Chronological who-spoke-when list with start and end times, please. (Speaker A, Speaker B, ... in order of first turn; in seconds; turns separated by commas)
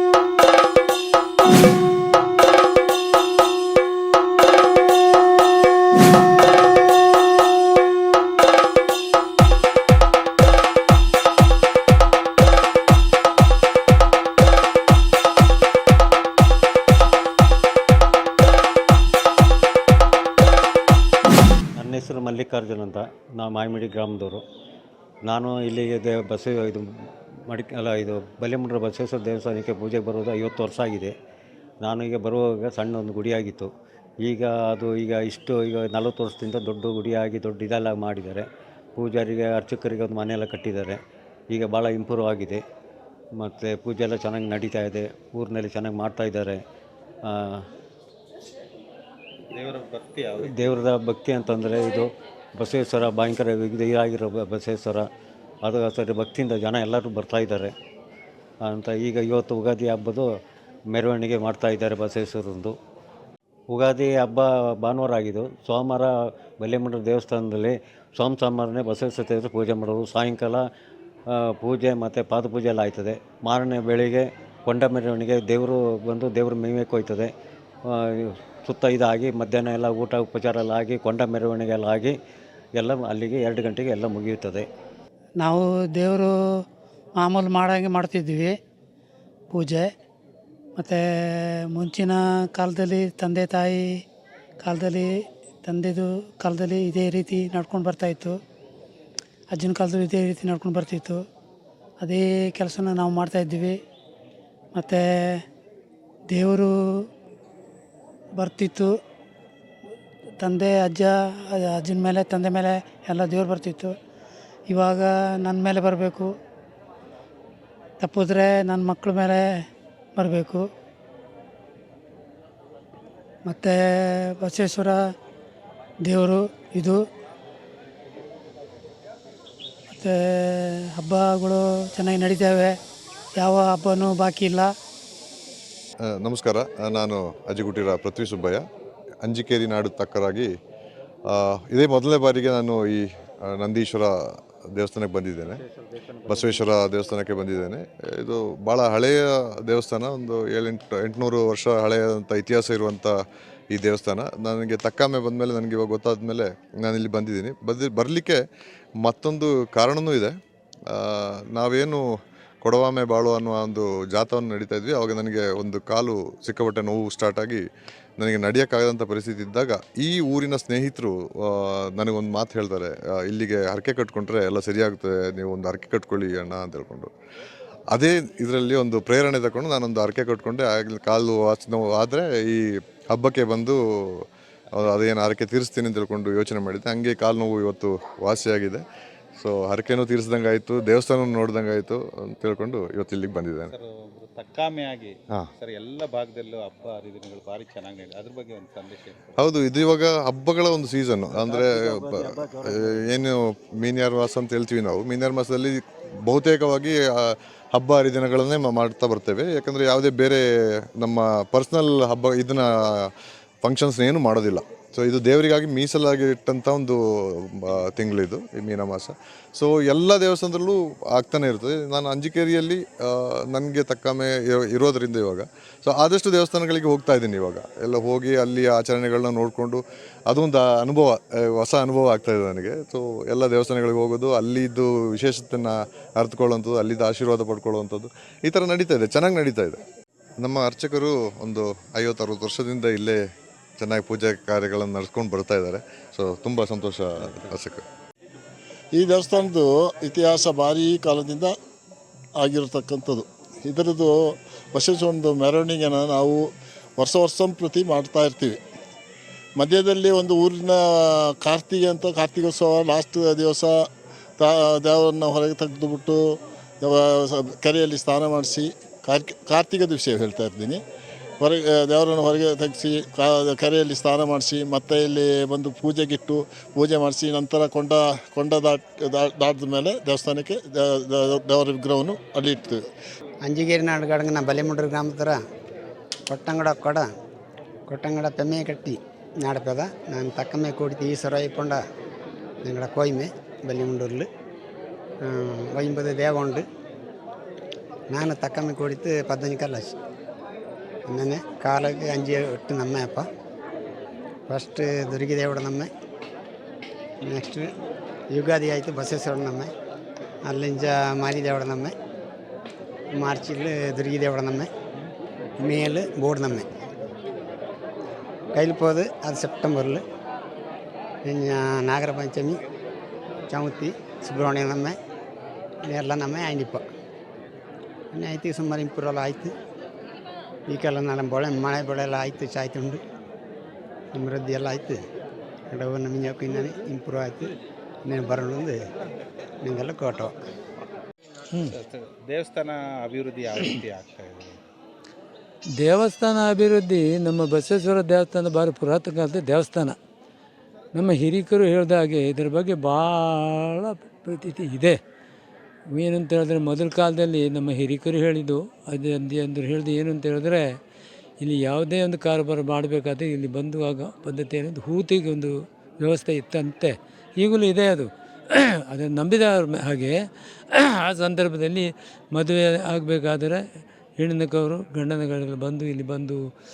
Speaker A: 21.8-24.4, Speaker A: 25.2-26.8, Speaker A: 27.5-31.1, Speaker A: 31.8-33.7, Speaker A: 34.2-41.0, Speaker A: 41.5-42.6, Speaker A: 43.4-46.6, Speaker A: 47.3-47.6, Speaker B: 49.5-50.7, Speaker A: 50.4-55.0, Speaker A: 55.6-57.7, Speaker A: 58.6-60.2, Speaker A: 60.9-62.7, Speaker A: 63.7-70.6, Speaker A: 71.3-77.3, Speaker A: 77.9-82.1, Speaker A: 82.8-84.7, Speaker C: 85.4-86.3, Speaker C: 87.2-88.5, Speaker C: 89.5-89.9, Speaker C: 90.8-94.0, Speaker C: 94.6-95.1, Speaker C: 95.6-98.4, Speaker C: 99.5-101.2, Speaker C: 102.0-103.8, Speaker C: 104.7-105.4, Speaker C: 106.3-106.7, Speaker C: 108.4-108.9, Speaker C: 110.4-113.9, Speaker C: 114.7-116.3, Speaker C: 118.0-119.4, Speaker C: 120.2-120.6, Speaker C: 123.5-125.0, Speaker C: 126.0-127.0, Speaker C: 129.9-132.8, Speaker C: 133.4-134.7, Speaker D: 136.0-138.6, Speaker D: 139.2-140.5, Speaker D: 141.3-144.1, Speaker D: 144.7-145.6, Speaker A: 145.5-146.7, Speaker D: 146.3-153.1, Speaker D: 153.7-158.4, Speaker D: 159.0-160.3, Speaker D: 160.9-162.0, Speaker D: 162.6-167.6, Speaker D: 168.2-177.1, Speaker D: 177.9-188.8, Speaker D: 189.4-193.7, Speaker B: 193.7-199.4, Speaker D: 199.4-210.4, Speaker A: 201.3-203.1, Speaker D: 211.0-213.1, Speaker D: 213.6-239.8, Speaker D: 240.4-243.2, Speaker D: 243.8-247.8, Speaker A: 247.2-247.5, Speaker E: 249.0-251.5, Speaker E: 252.4-254.2, Speaker E: 254.7-256.4, Speaker E: 257.0-258.6, Speaker E: 259.6-263.7, Speaker E: 264.4-270.8, Speaker E: 271.4-282.8, Speaker F: 283.4-285.4, Speaker F: 286.3-287.1, Speaker F: 287.9-291.8, Speaker F: 292.6-294.3, Speaker F: 295.2-296.6, Speaker F: 298.1-299.9, Speaker F: 301.1-303.2, Speaker F: 304.5-305.9, Speaker F: 307.2-307.7, Speaker F: 308.3-309.7, Speaker F: 310.4-311.9, Speaker F: 313.1-314.7, Speaker F: 315.6-316.7, Speaker F: 318.5-320.0, Speaker F: 321.2-322.6, Speaker F: 323.5-325.0, Speaker F: 325.8-326.8, Speaker F: 328.1-329.5, Speaker F: 330.7-333.0, Speaker F: 334.1-335.0, Speaker F: 335.7-337.5, Speaker F: 338.0-338.8, Speaker F: 339.6-340.3, Speaker B: 341.8-344.6, Speaker G: 345.8-349.9, Speaker G: 350.9-355.0, Speaker G: 355.9-360.8, Speaker G: 361.4-368.1, Speaker G: 368.9-370.1, Speaker G: 370.7-373.6, Speaker G: 374.2-376.4